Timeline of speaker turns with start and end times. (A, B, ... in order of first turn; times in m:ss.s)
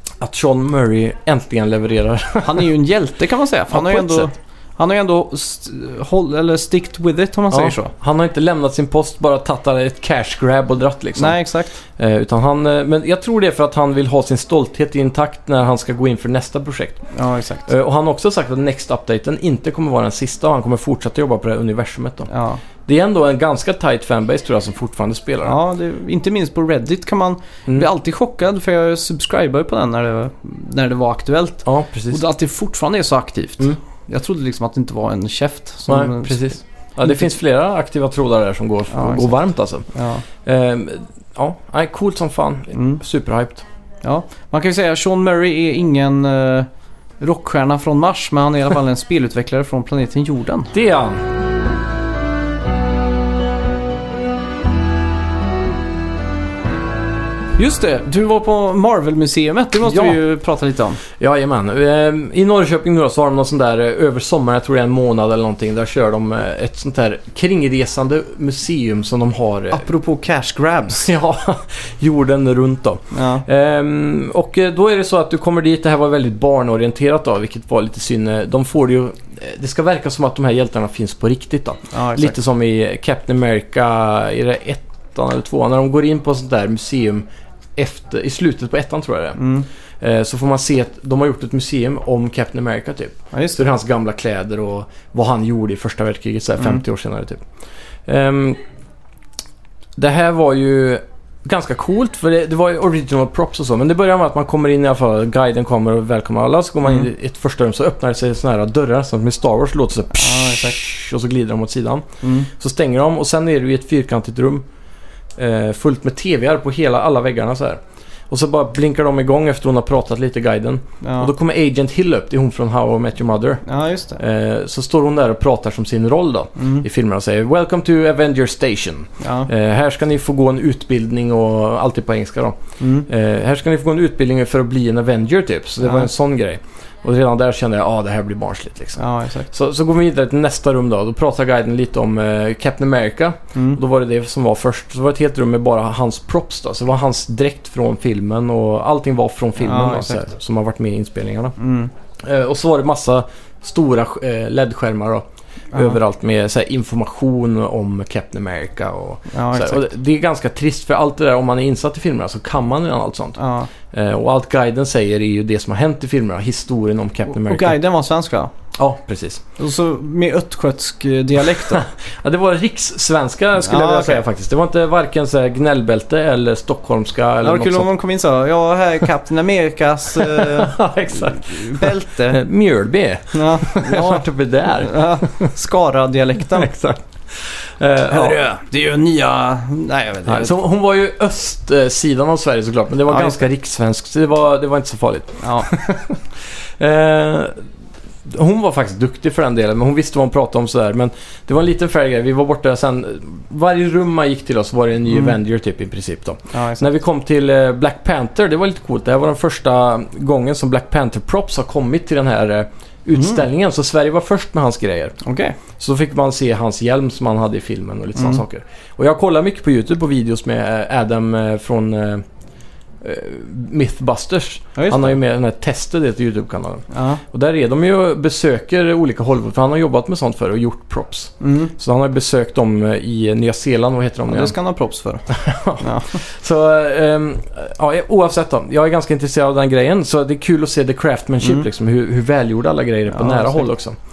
0:00.2-0:02.7 A
0:02.4-0:07.9 B
0:03.7-0:04.3 A
0:07.5-0:11.4 A
0:11.2-0:11.8 B
0:12.0-0:17.1 A
0:17.1-0:17.7 B
0:17.7-0:22.3 A
0:22.3-0:22.6 B
0:22.8-0:25.6 A
0:25.4-0:37.2 B
0:31.6-0:32.2 A
0:35.9-0:39.9 A
0:38.9-0:39.3 B
0:39.9-0:40.2 B
0:40.4-0:43.6 A
0:42.7-0:43.0 B
0:44.0-0:46.7 B
0:47.2-0:50.7 B
0:50.7-0:51.2 A
0:57.6-1:01.0 B
0:59.8-1:00.2 A
1:01.2-1:09.8 A
1:09.7-1:11.1 B
1:11.0-1:27.2 A
1:13.1-1:13.4 B
1:21.9-1:22.4 B
1:27.8-1:29.4 A
1:29.4-1:29.6 B
1:30.0-1:37.4 A
1:33.3-1:33.6 B
1:38.1-1:38.6 A
1:40.0-1:54.6 A
1:50.1-1:50.8 B
1:52.2-1:52.5 B
1:55.4-2:03.6 A
2:01.0-2:01.3 B
2:03.6-2:04.2 B
2:04.2-2:31.6 A
2:06.6-2:06.8 B
2:09.2-2:09.5 B
2:12.8-2:13.1 B
2:15.8-2:16.1 B
2:19.0-2:19.5 B
2:23.5-2:23.8 B
2:29.6-2:30.3 B
2:31.6-2:31.9 B
2:32.2-2:43.4 A
2:39.3-2:39.9 B
2:43.4-2:43.7 B
2:43.9-2:47.8 A
2:47.3-2:48.5 B
2:48.8-2:49.4 A
2:49.6-2:51.8 B
2:51.6-2:57.9 A
2:53.6-2:54.2 B
2:57.4-3:02.4 B
3:00.1-3:05.5 A
3:03.3-3:06.7 B
3:06.5-3:08.5 A
3:08.1-3:10.5 B
3:10.2-3:17.6 A
3:13.1-3:13.4 B
3:15.4-3:15.7 B
3:18.2-3:35.2 A
3:26.5-3:26.9 B
3:35.2-3:35.6 B
3:35.8-3:42.2 A
3:43.0-3:54.5 A
3:44.8-3:45.1 B
3:46.9-3:47.2 B
3:51.4-3:51.7 B
3:54.3-3:56.2 B
3:55.3-4:04.0 A
4:03.1-4:03.6 B